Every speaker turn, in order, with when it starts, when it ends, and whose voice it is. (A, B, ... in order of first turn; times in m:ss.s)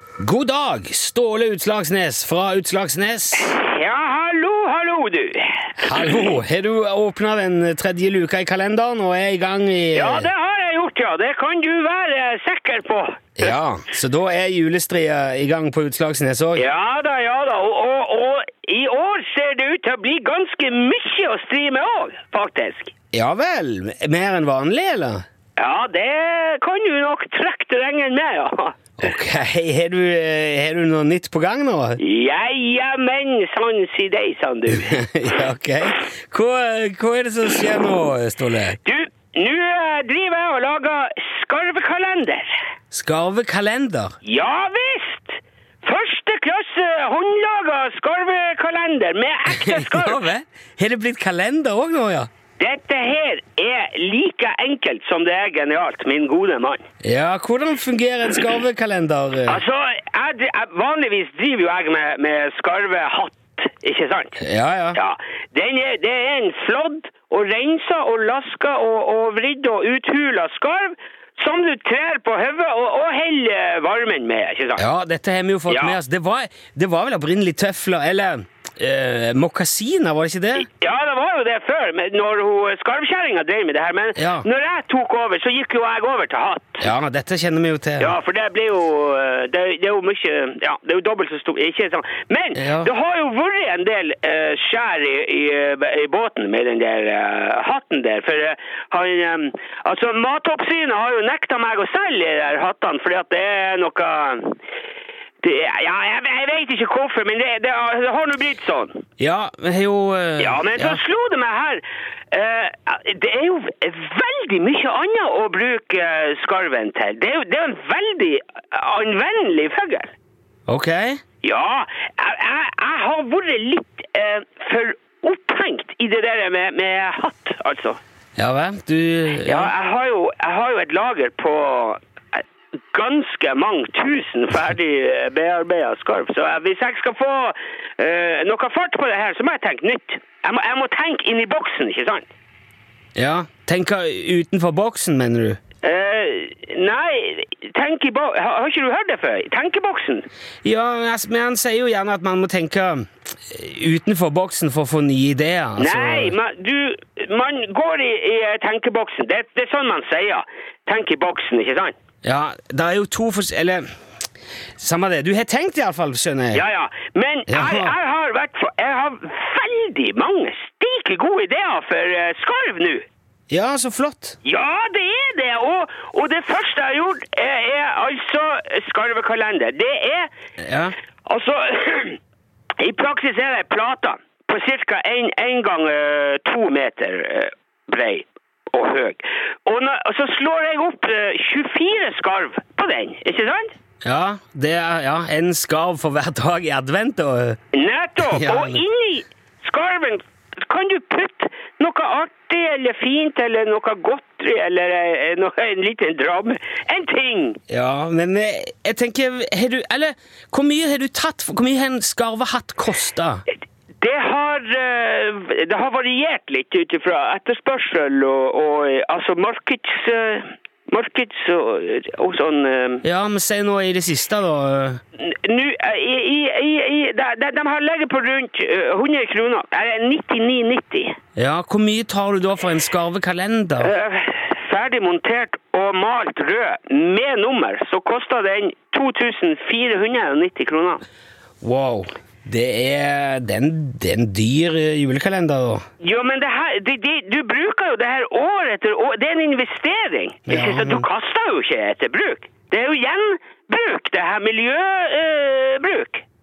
0:00.2-0:03.5 A
0:03.4-0:06.3 B
0:05.8-0:10.3 A
0:09.9-0:13.5 B
0:13.4-0:16.6 A
0:16.5-0:22.9 B
0:23.1-0:25.2 A
0:25.6-0:28.8 B
0:29.0-0:32.0 A
0:32.0-0:35.1 B
0:34.7-0:38.8 A
0:38.8-0:42.6 B
0:42.9-0:44.1 A
0:44.2-0:50.2 B
0:49.5-0:52.3 A
0:52.6-0:56.8 B
0:57.0-0:59.6 A
0:59.4-1:04.4 B
1:04.4-1:05.0 A
1:04.9-1:14.8 B
1:14.8-1:20.7 A
1:15.7-1:16.0 B
1:20.6-1:26.9 B
1:24.2-1:24.5 A
1:26.8-1:28.2 A
1:28.0-1:44.6 B
1:32.5-1:32.9 A
1:45.4-1:49.0 B
1:49.2-1:51.0 A
1:50.4-2:00.1 B
2:00.7-2:01.2 A
2:01.4-2:08.0 B
2:08.4-2:09.7 A
2:09.4-2:22.3 B
2:23.2-2:25.6 A
2:25.8-2:30.3 B
2:30.6-2:36.3 A
2:35.8-2:41.9 B
2:42.2-2:43.8 A
2:44.8-2:46.6 A
2:46.5-2:53.0 B
2:47.5-2:47.9 A
2:53.5-2:54.4 A
2:54.4-3:00.3 B
3:00.6-3:00.9 A
3:01.2-3:02.2 B
3:02.8-3:13.7 B
3:14.0-3:17.6 A
3:17.7-3:27.6 B
3:18.2-3:18.8 A
3:27.7-3:33.4 A
3:34.0-3:43.0 B
3:43.0-3:45.0 A
3:45.2-3:51.2 B
3:51.4-3:53.9 A
3:53.8-4:01.0 B
4:01.6-4:05.8 A
4:06.0-4:16.2 B
4:10.5-4:11.1 A